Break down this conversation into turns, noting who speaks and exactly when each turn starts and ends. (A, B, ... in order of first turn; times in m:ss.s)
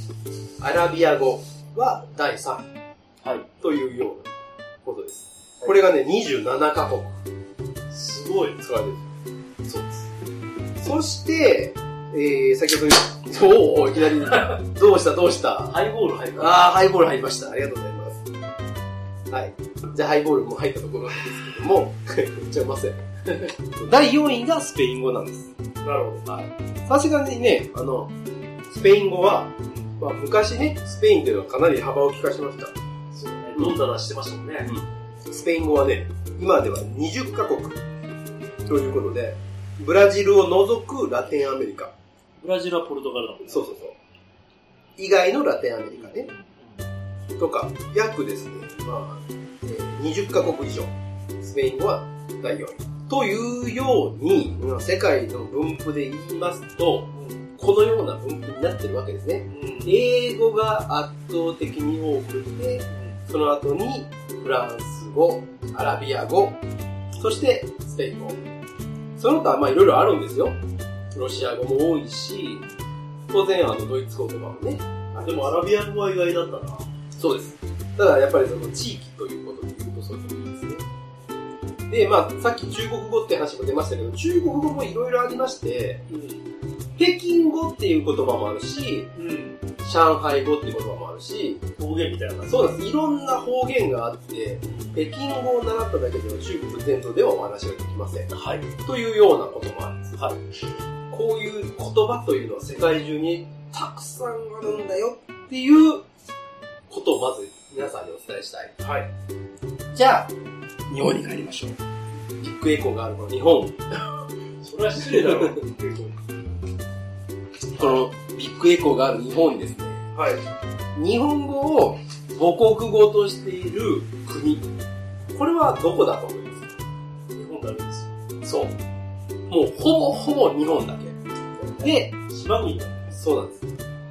0:00.6-0:02.7 A
0:03.2-0:03.5 B
0:03.6-0:04.3 A
0:04.8-0:07.2 A
0:07.9-0:08.6 B
0:08.6-0:09.1 A
0:09.6-0:10.1 A
0:10.8-0:15.8 A
0:15.7-0:16.6 B
0:16.4-0:18.2 A
0:19.3-0:25.5 A
0:25.8-0:26.3 B
0:26.2-0:28.1 A
0:28.7-0:32.8 A
0:33.1-0:34.7 B
0:33.5-0:33.8 A
0:34.6-0:37.8 A
0:38.6-0:41.9 A
0:42.4-0:43.7 B
0:43.4-0:44.0 A
0:45.0-0:46.3 A
0:45.9-0:46.6 B
0:47.4-1:06.6 A
0:57.1-0:57.4 B
0:59.5-1:00.0 B
1:02.9-1:03.2 B
1:07.2-1:08.4 A
1:09.2-1:10.6 A
1:11.1-1:12.6 A
1:13.3-1:15.6 A
1:15.2-1:16.9 B
1:17.2-1:20.8 A
1:21.9-1:26.0 A
1:26.1-1:26.4 B
1:27.0-1:29.1 A
1:29.1-1:29.6 B
1:29.8-1:31.6 A
1:31.8-1:32.6 B
1:32.4-1:40.2 A
1:34.6-1:35.0 B
1:38.3-1:38.7 B
1:41.1-1:46.0 A
1:46.9-1:48.7 A
1:48.8-1:49.1 B
1:49.9-1:50.3 A
1:50.9-1:51.8 A
1:52.4-1:54.1 A
1:54.6-1:56.2 B
1:55.0-1:55.6 A
1:57.7-2:00.0 A
2:00.1-2:00.4 B
2:00.9-2:04.7 A
2:05.3-2:06.7 A
2:07.3-2:08.1 B
2:08.4-2:08.8 A
2:09.5-2:11.2 A
2:11.6-2:13.2 B
2:11.8-2:12.1 A
2:13.1-2:13.8 A